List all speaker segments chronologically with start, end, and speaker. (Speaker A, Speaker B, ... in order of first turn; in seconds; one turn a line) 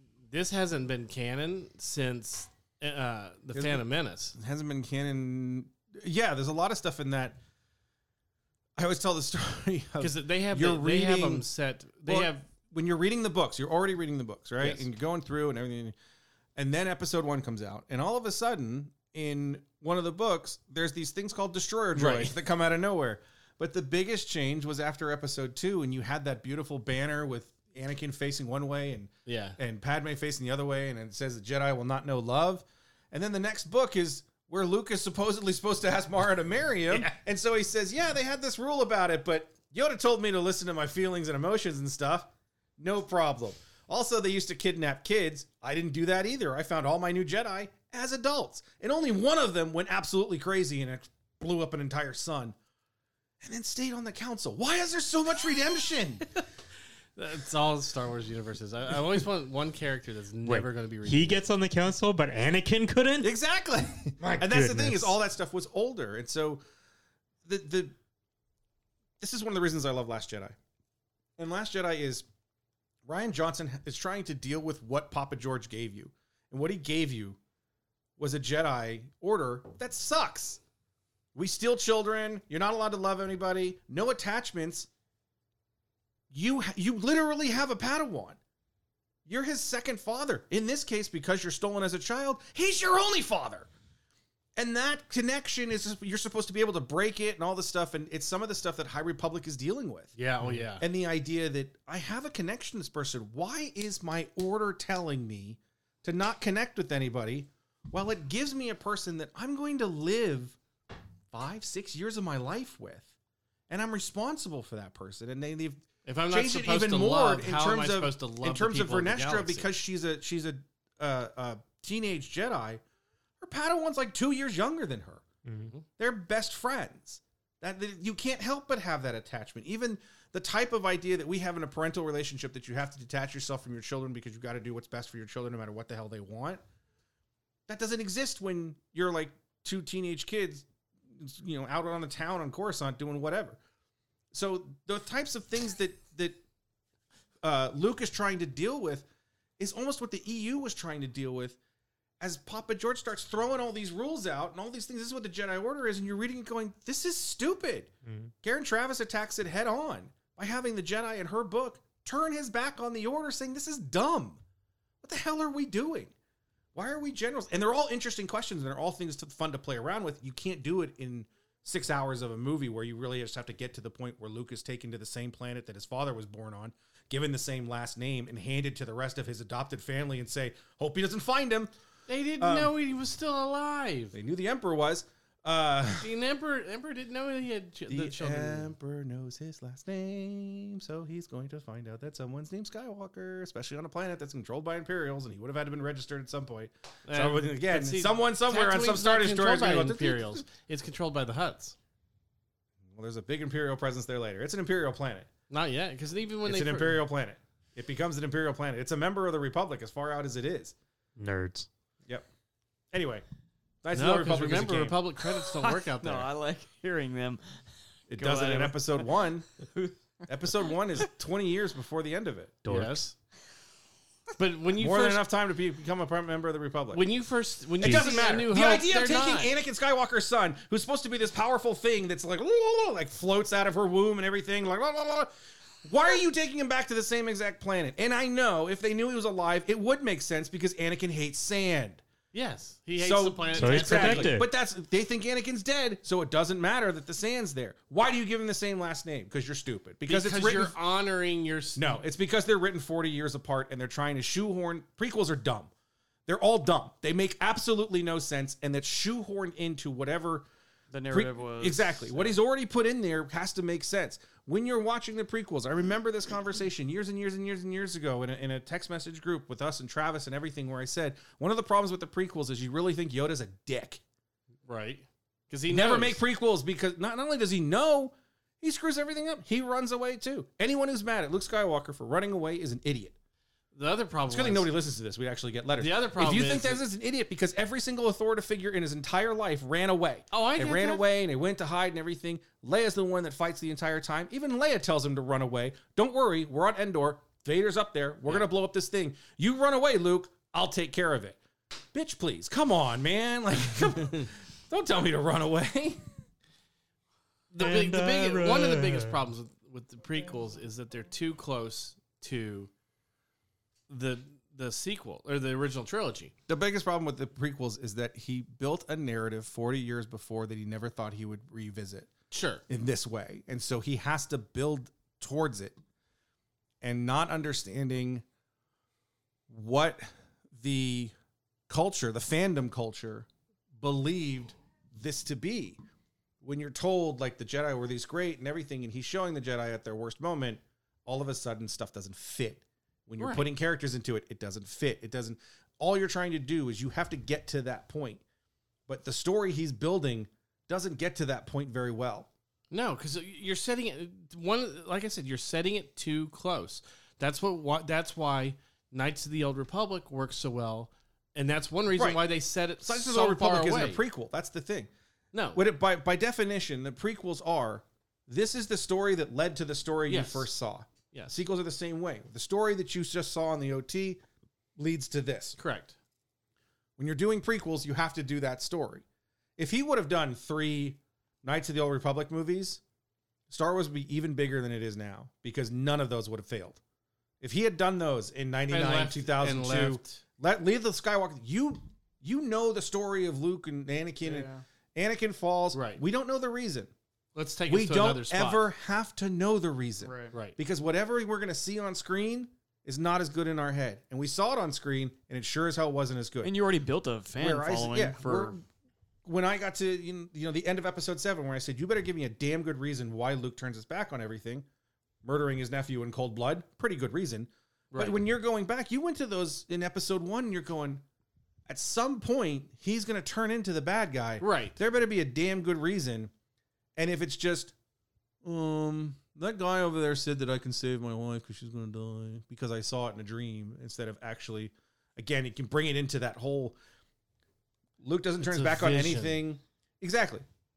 Speaker A: 0.2-4.4
Speaker B: 3.5-7.4
Speaker B: 8.8-11.5
Speaker A: 10.0-12.5
Speaker B: 12.0-15.9
Speaker A: 14.6-14.9
Speaker B: 16.6-52.6
Speaker A: 22.0-22.3
Speaker A: 29.3-29.6
Speaker A: 36.9-37.1
Speaker B: 53.4-56.3
Speaker A: 57.2-61.4
Speaker C: 60.5-63.3
Speaker B: 63.2-66.6
Speaker C: 64.2-65.2
Speaker B: 67.5-68.0
Speaker B: 69.2-70.6
Speaker B: 71.4-72.3
Speaker B: 73.0-77.4
Speaker B: 78.2-80.6
Speaker B: 81.3-84.9
Speaker B: 86.3-88.4
Speaker B: 89.3-93.7
Speaker B: 94.6-100.2
Speaker A: 100.2-100.9
Speaker B: 100.8-110.6
Speaker B: 111.3-113.1
Speaker B: 113.7-122.8
Speaker A: 116.0-119.7
Speaker B: 123.4-125.2
Speaker C: 125.5-125.7
Speaker B: 126.0-136.6
Speaker B: 137.7-143.6
Speaker B: 144.3-146.4
Speaker B: 147.4-149.1
Speaker B: 149.6-151.6
Speaker B: 152.2-157.9
Speaker C: 158.1-158.3
Speaker B: 158.4-164.4
Speaker B: 165.0-166.1
Speaker B: 166.8-181.7
Speaker A: 182.1-184.2
Speaker B: 182.4-182.7
Speaker B: 184.1-186.1
Speaker A: 185.9-188.7
Speaker B: 187.9-200.4
Speaker A: 197.1-201.8
Speaker B: 202.9-205.3
Speaker A: 205.5-207.0
Speaker B: 206.4-210.8
Speaker C: 211.2-211.7
Speaker B: 212.9-213.2
Speaker B: 213.8-215.0
Speaker A: 213.9-216.3
Speaker D: 215.3-217.6
Speaker B: 218.1-219.7
Speaker D: 218.1-219.9
Speaker B: 220.3-222.6
Speaker C: 222.7-223.0
Speaker A: 222.7-223.2
Speaker A: 224.4-225.2
Speaker B: 224.8-227.1
Speaker A: 226.9-229.5
Speaker B: 227.8-235.3
Speaker C: 227.8-228.4
Speaker B: 235.8-242.0
Speaker A: 242.3-244.4
Speaker B: 243.0-250.8
Speaker C: 243.6-244.5
Speaker A: 250.1-251.9
Speaker B: 251.8-255.7
Speaker B: 256.3-260.5
Speaker D: 260.9-262.4
Speaker B: 261.1-274.0
Speaker A: 274.6-276.2
Speaker B: 275.7-283.1
Speaker A: 283.7-284.7
Speaker B: 284.3-301.4
Speaker A: 285.8-286.8
Speaker A: 290.3-291.1
Speaker B: 301.9-306.1
Speaker A: 307.5-312.7
Speaker C: 307.6-309.2
Speaker A: 313.9-316.3
Speaker B: 316.5-322.1
Speaker A: 322.3-322.6
Speaker B: 322.7-325.8
Speaker B: 326.8-328.2
Speaker B: 329.5-331.1
Speaker B: 331.7-335.8
Speaker B: 336.4-348.2
Speaker A: 343.2-343.5
Speaker B: 348.9-352.3
Speaker A: 352.7-364.0
Speaker B: 361.9-362.2
Speaker B: 362.8-364.9
Speaker A: 365.3-365.6
Speaker B: 365.6-374.2
Speaker A: 370.1-370.5
Speaker B: 374.8-375.6
Speaker A: 375.6-376.0
Speaker B: 377.0-379.1
Speaker B: 379.6-382.8
Speaker B: 383.5-386.8
Speaker B: 387.4-396.9
Speaker A: 388.7-390.2
Speaker D: 394.2-394.6
Speaker A: 395.7-396.0
Speaker A: 397.4-398.7
Speaker B: 397.7-406.6
Speaker D: 400.0-400.3
Speaker D: 406.4-408.6
Speaker B: 407.4-408.6
Speaker B: 409.2-414.7
Speaker B: 415.2-421.0
Speaker A: 417.9-418.2
Speaker B: 421.7-426.3
Speaker A: 424.4-424.8
Speaker B: 427.0-427.7
Speaker B: 428.4-436.8
Speaker B: 438.0-440.4
Speaker A: 438.4-439.4